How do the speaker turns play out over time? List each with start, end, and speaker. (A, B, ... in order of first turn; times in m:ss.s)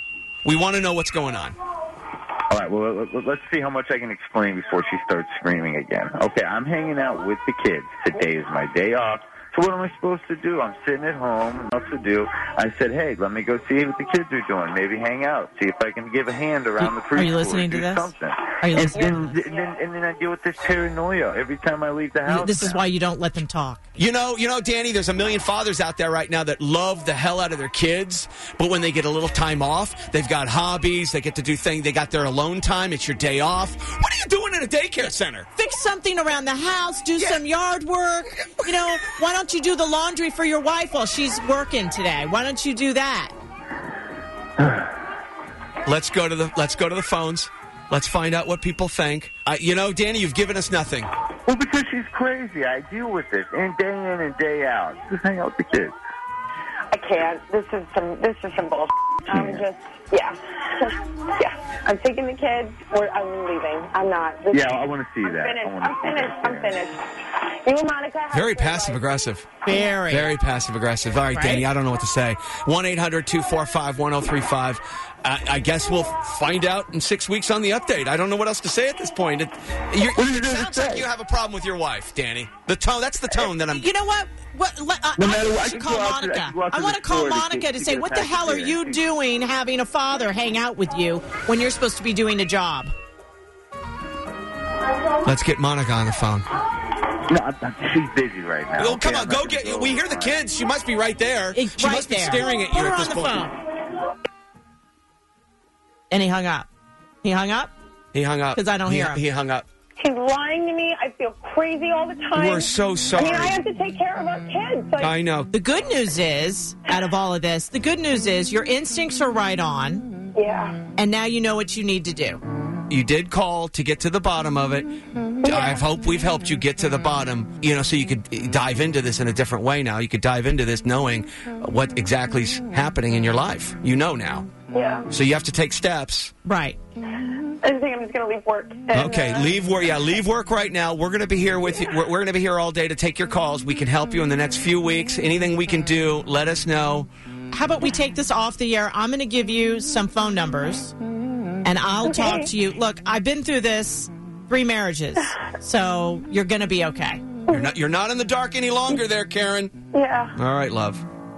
0:00.4-0:01.6 A
0:02.5-0:22.8 B
0:16.8-0:19.4 C
0:18.9-0:19.7 D
0:22.2-0:23.8 C
0:24.0-0:35.5 A
0:35.6-0:43.4 C
0:44.6-0:44.9 B
0:45.8-0:51.1 A
0:51.5-0:55.9 B
0:56.9-1:09.0 D
0:59.3-0:59.6 B
1:04.5-1:06.8 B
1:08.3-1:09.5 A
1:09.6-1:10.3 C
1:10.1-1:23.9 A
1:11.3-1:11.7 C
1:20.1-1:21.1 B
1:23.7-1:32.9 C
1:25.2-1:29.0 B
1:35.2-1:36.5 A
1:37.3-1:40.4 B
1:38.8-1:43.5 A
1:41.5-1:43.6 C
1:46.1-1:46.7 C
1:47.2-1:47.7 C
1:48.1-1:49.7 A
1:48.6-1:49.2 C
1:50.0-1:55.1 D
1:52.3-1:53.6 A
1:55.0-1:55.5 A
1:55.5-2:00.1 C
2:00.4-2:00.8 D
2:01.0-2:02.4 C
2:02.9-2:04.9 A
2:05.4-2:14.5 A
2:05.4-2:05.8 D
2:14.7-2:15.1 D
2:15.1-2:16.3 A
2:16.4-2:16.8 C
2:17.6-2:19.9 D
2:18.9-2:27.1 A
2:27.5-2:30.9 C
2:31.6-2:37.2 C
2:37.5-2:39.7 A
2:39.9-2:40.4 D
2:40.4-2:41.0 A